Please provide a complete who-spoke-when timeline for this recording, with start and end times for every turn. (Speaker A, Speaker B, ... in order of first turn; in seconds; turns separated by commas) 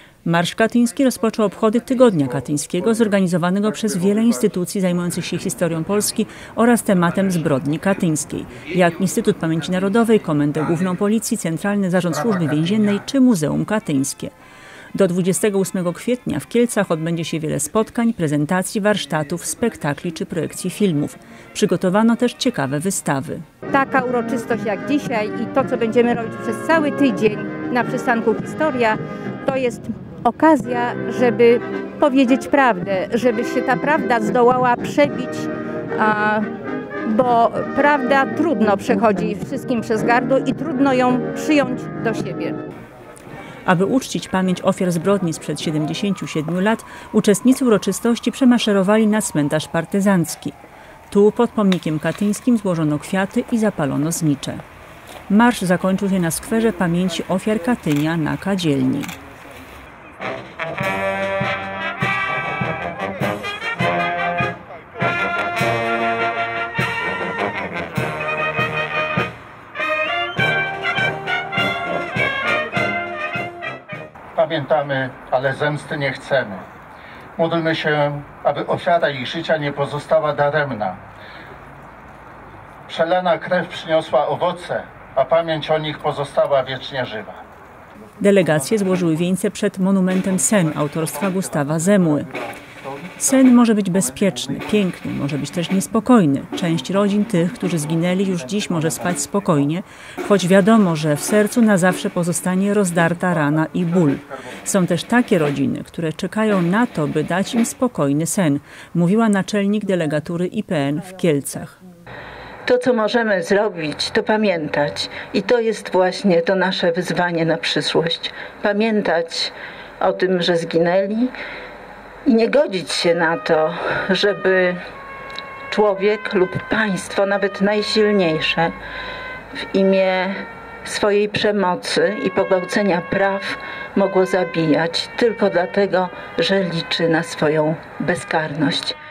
Speaker A: 0.2-14.3, Speaker A: 14.9-23.4, Speaker B: 23.7-36.5, Speaker B: 37.0-42.6, Speaker A: 43.7-50.6, Speaker A: 51.1-54.6, Speaker A: 55.3-59.1, Speaker C: 74.4-76.6, Speaker C: 77.4-81.0, Speaker C: 82.9-87.4, Speaker A: 88.2-92.3, Speaker A: 93.2-111.8, Speaker D: 112.7-121.3, Speaker D: 122.2-124.8, Speaker D: 125.7-128.7, Speaker D: 129.7-139.0